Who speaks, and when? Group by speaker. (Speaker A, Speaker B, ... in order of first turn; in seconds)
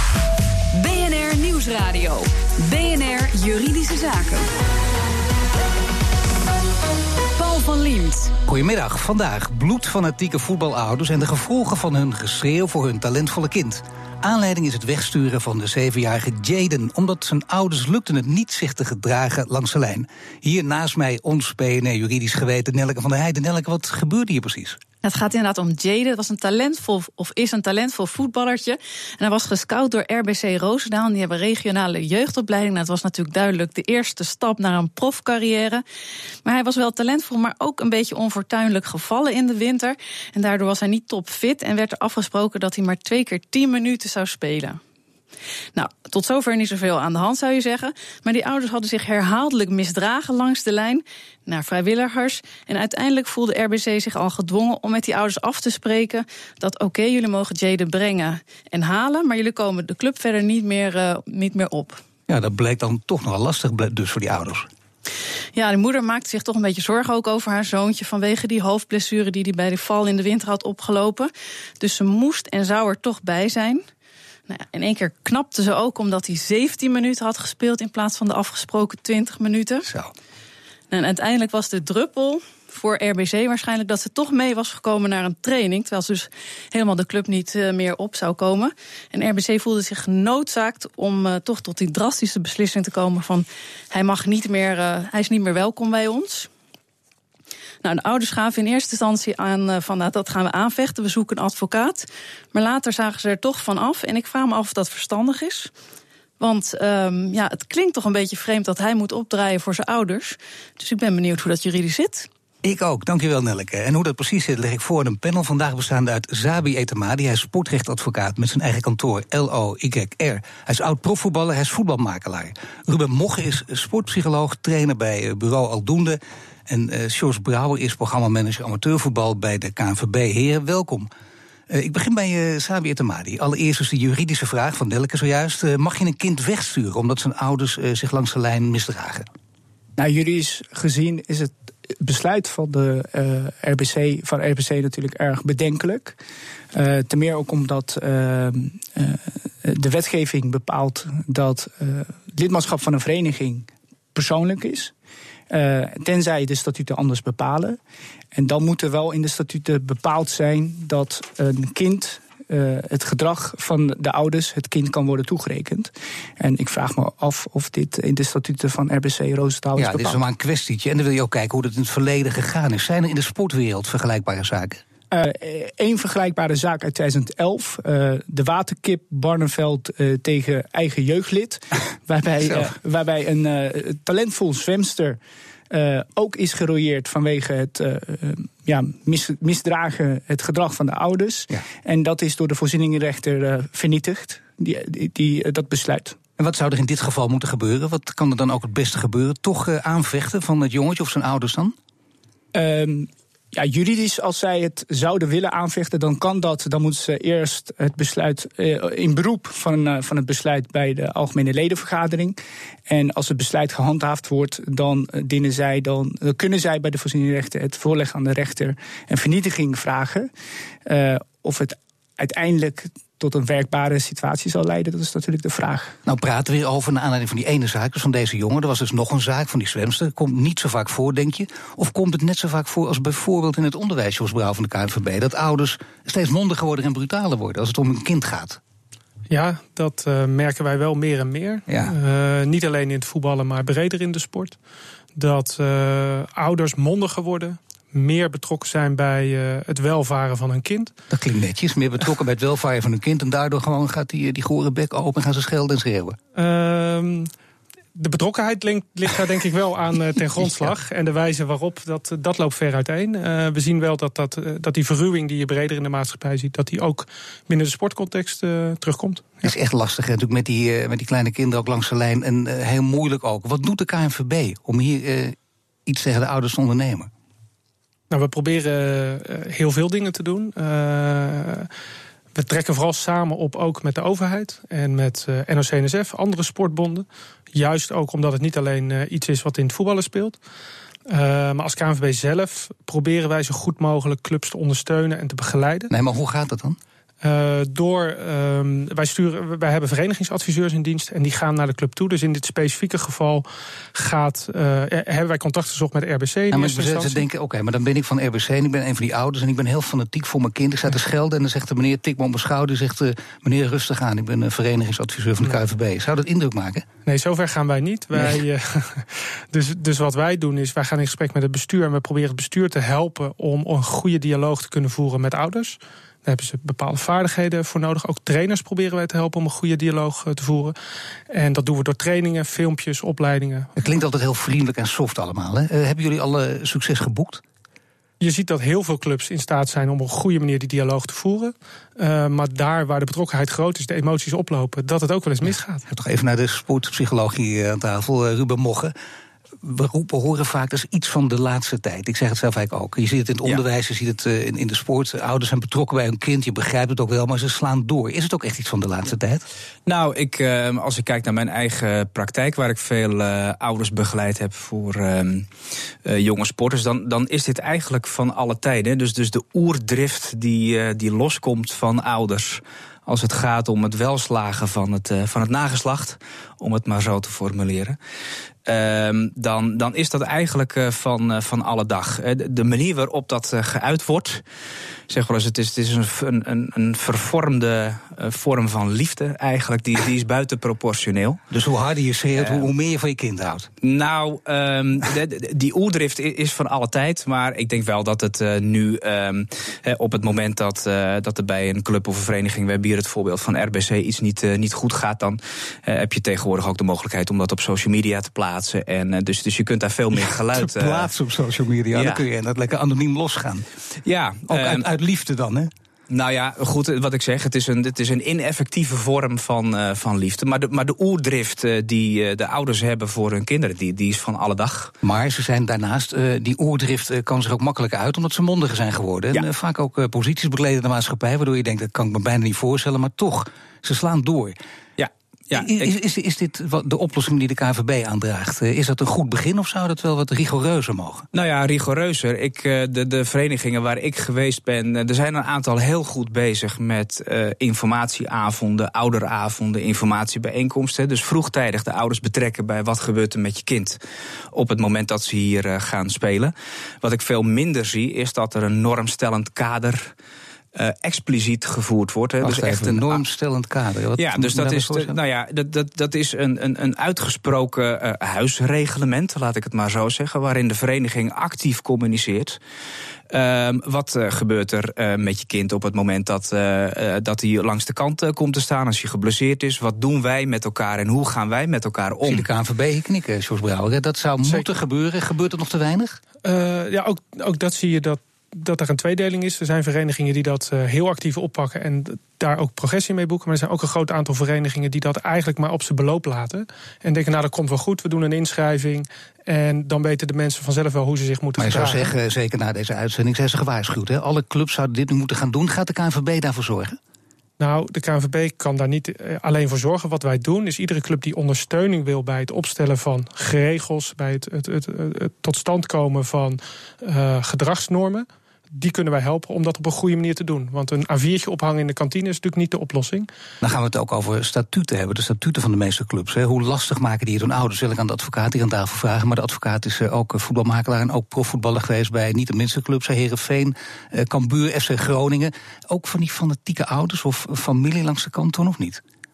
Speaker A: 0.7-4.5, 7.4-8.3
Speaker B: 8.5-24.8, 62.3-64.7, 79.8-80.1, 112.6-131.1, 131.7-139.3, 169.8-174.8, 196.4-201.8, 226.1-238.6, 241.7-241.9, 251.1-256.2, 269.4-277.1, 295.9-296.8, 306.5-316.9, 333.8-337.4, 345.9-348.9, 349.6-359.4, 391.5-393.7, 410.1-413.7, 414.5-415.7, 425.0-434.6, 435.5-441.3, 462.4-465.2, 482.2-486.2, 501.6-507.0, 523.6-539.0
Speaker C: 25.0-35.8, 36.4-44.8, 45.8-62.0, 65.5-73.8, 74.5-79.9, 80.9-96.5, 97.8-105.7, 106.4-112.3
Speaker D: 140.0-146.2, 146.7-154.9, 155.5-157.8, 158.3-170.2, 175.1-196.2, 202.5-212.4, 212.9-220.3, 220.9-226.0
Speaker E: 239.3-244.6, 245.2-250.9, 256.4-257.3, 257.9-269.5, 278.1-281.7, 282.4-290.4, 291.1-295.9, 297.2-307.3, 317.1-330.7, 331.3-333.8, 338.2-345.8, 486.4-502.1, 507.6-523.3
Speaker F: 359.9-365.5, 366.1-378.0, 378.7-384.4, 385.1-391.4, 392.4-392.7, 393.8-411.1, 411.9-412.2, 414.1-414.9, 416.1-424.9, 435.0-435.9, 441.3-454.0, 454.5-460.1, 460.8-463.2, 464.2-472.6, 473.3-482.4